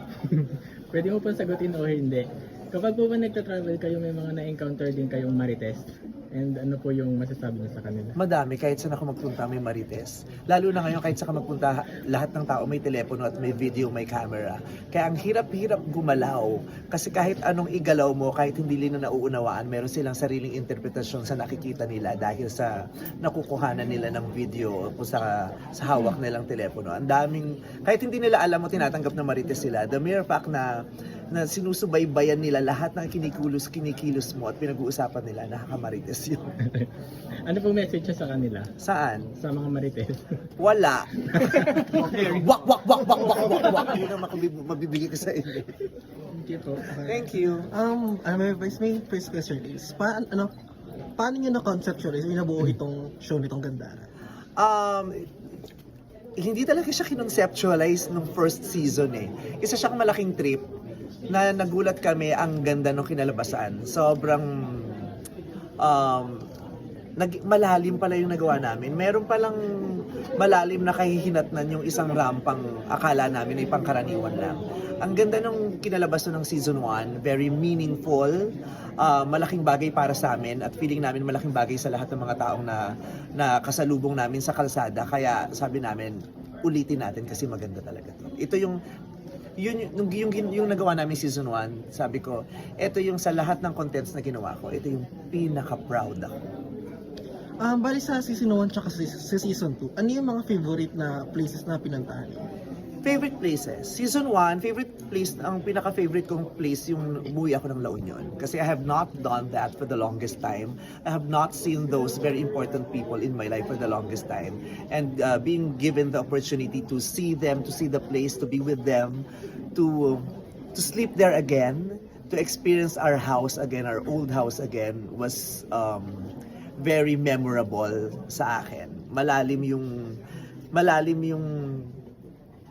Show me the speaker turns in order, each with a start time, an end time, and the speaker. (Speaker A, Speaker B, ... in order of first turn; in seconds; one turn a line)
Speaker A: 0.3-8.2
Speaker B: 8.2-22.7
Speaker B: 23.2-30.7
Speaker B: 31.3-36.5
Speaker A: 37.5-38.7
Speaker B: 38.8-39.3
Speaker A: 39.4-40.2
Speaker B: 40.6-45.7
Speaker A: 41.3-42.0
Speaker A: 46.3-46.9
Speaker C: 46.8-50.5
Speaker B: 47.0-47.7
Speaker C: 51.2-54.1
Speaker B: 54.6-55.1
Speaker B: 56.4-60.6
Speaker B: 61.3-65.1
Speaker B: 65.8-66.4
Speaker B: 67.2-78.3
Speaker B: 79.0-82.8
Speaker B: 83.4-86.1
Speaker B: 86.6-88.8
Speaker B: 89.6-96.3
Speaker C: 97.6-102.4
Speaker B: 103.0-129.9
Speaker B: 130.7-131.9